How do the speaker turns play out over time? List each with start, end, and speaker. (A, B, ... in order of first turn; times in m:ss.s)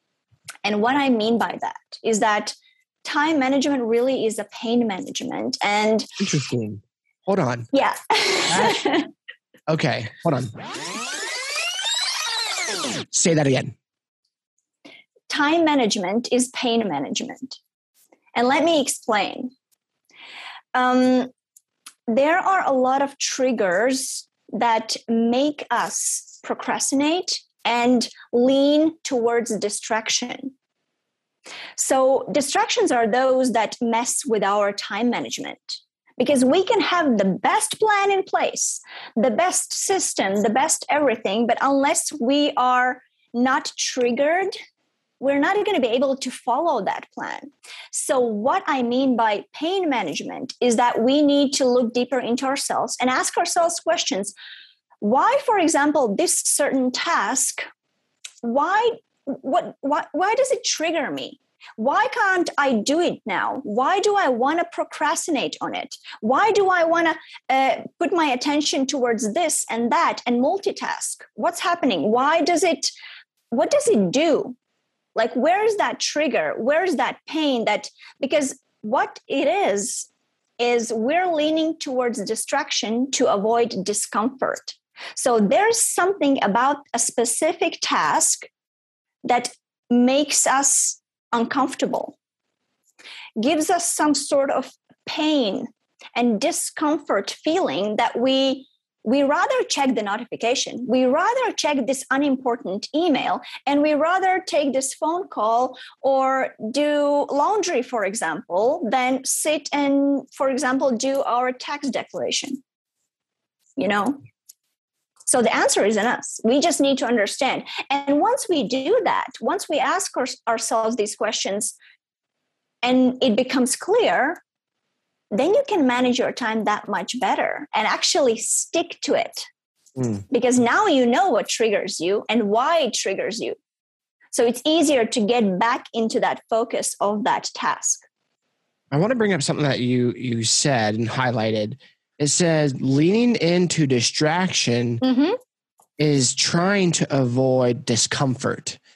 0:00.6-0:06.1 A
0:06.2-0:07.7 B
0:07.7-0:09.1 A
0:08.5-0:08.8 B
0:09.7-0:10.6 B
0:13.1-0:13.8 B
0:15.3-0:17.6 A
0:18.4-0:19.5 A
0:20.7-0:21.3 A
0:22.1-0:30.5 A
0:31.8-0:44.5 A
0:45.2-0:54.3 A
0:55.0-0:57.7 A
0:58.4-1:12.9 A
1:13.5-1:14.6 A
1:15.2-1:28.5 A
1:29.2-1:32.2 A
1:33.4-1:52.6 A
1:53.8-1:54.2 A
1:55.3-2:01.8 A
2:02.8-2:04.4 A
2:05.3-2:09.5 A
2:10.0-2:10.2 B
2:10.3-2:13.6 A
2:14.3-2:18.0 A
2:18.9-2:25.0 B
2:25.0-2:25.4 A
2:26.0-2:28.8 B